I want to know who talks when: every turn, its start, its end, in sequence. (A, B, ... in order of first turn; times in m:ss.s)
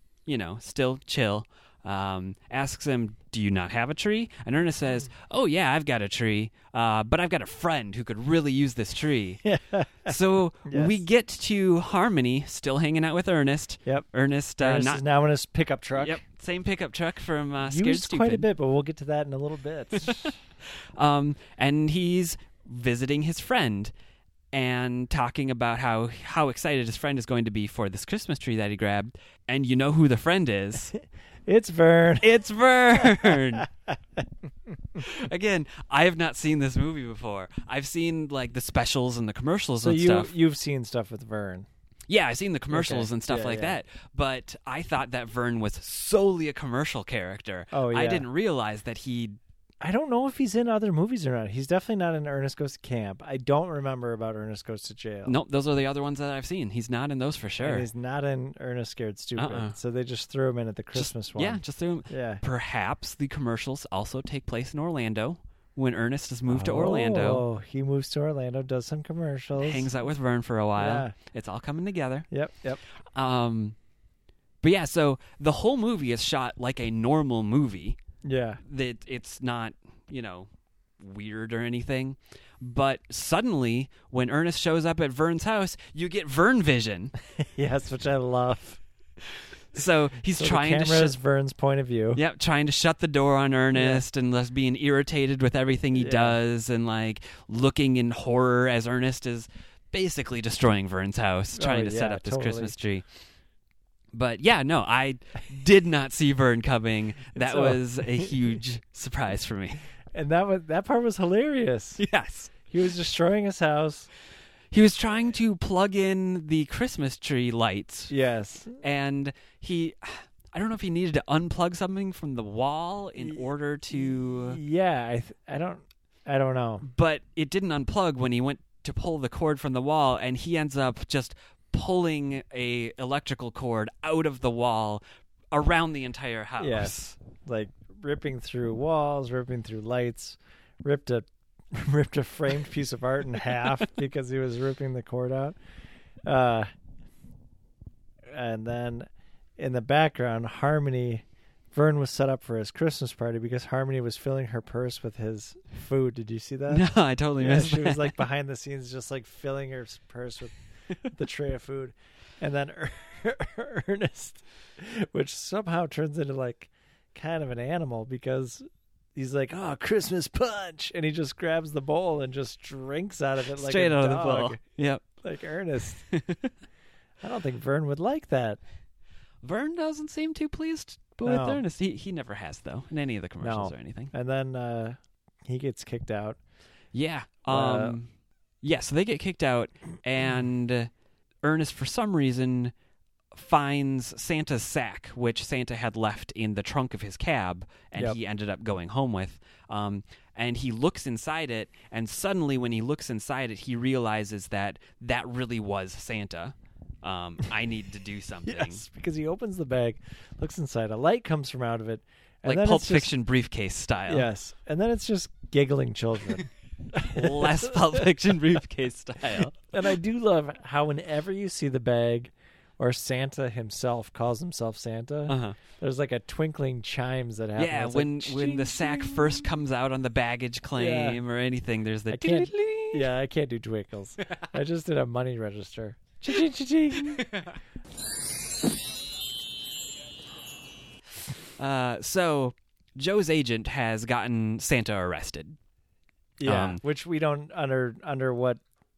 0:00.3-0:09.4 A
0:09.4-0:11.0 B
0:10.1-0:15.0 A
0:14.6-0:16.2 B
0:16.0-0:18.5 A
0:17.6-0:20.3 B
0:20.0-0:20.3 A
0:21.0-0:23.9 A
0:24.5-0:30.9 A
0:31.5-0:32.3 B
0:32.2-0:33.7 A
0:35.0-0:40.3 A
0:39.8-0:41.7 B
0:42.1-0:49.4 A
0:42.7-0:43.8 B
0:47.7-0:48.3 B
0:49.8-0:55.4 B
0:55.3-0:57.9 A
0:57.6-1:02.4 B
0:59.4-0:59.8 A
1:01.0-1:07.4 A
1:06.5-1:09.9 B
1:09.6-1:12.3 A
1:10.8-1:11.1 B
1:12.3-1:12.8 B
1:13.2-1:13.8 A
1:14.6-1:18.0 A
1:18.2-1:18.6 B
1:18.6-1:20.5 A
1:21.0-1:27.1 A
1:27.4-1:28.8 B
1:29.7-1:31.2 A
1:30.4-1:32.2 B
1:32.2-1:43.0 A
1:33.7-1:34.0 B
1:36.0-1:36.4 B
1:41.6-1:42.8 B
1:44.1-1:49.8 A
1:47.4-1:48.3 B
1:50.1-1:52.0 B
1:52.0-1:52.5 A
1:52.7-1:54.1 B
1:54.7-1:58.1 A
1:58.1-1:58.8 B
1:58.8-2:04.6 A
2:04.3-2:06.9 B
2:06.8-2:17.2 A
2:16.6-2:25.6 B
2:26.3-2:26.7 B
2:28.3-2:36.8 B
2:36.7-2:38.2 A
2:37.4-2:40.5 B
2:41.1-2:54.6 B
2:53.6-2:55.0 A
2:55.2-2:56.0 B
2:56.1-2:56.5 A
2:57.2-2:58.6 B
2:59.4-3:04.1 A
3:01.2-3:01.6 B
3:03.4-3:06.4 B
3:06.9-3:08.1 A
3:07.5-3:08.0 B
3:08.6-3:10.9 A
3:11.4-3:12.7 A
3:13.3-3:28.8 A
3:28.5-3:33.1 B
3:32.4-3:34.3 A
3:34.1-3:38.1 B
3:37.0-3:39.6 A
3:39.7-3:49.5 B
3:45.3-3:45.6 A
3:47.6-3:53.1 A
3:50.8-3:51.2 B
3:52.1-3:57.3 B
3:57.2-3:57.5 A
4:01.6-4:05.6 A
4:06.4-4:08.6 B
4:06.4-4:06.8 A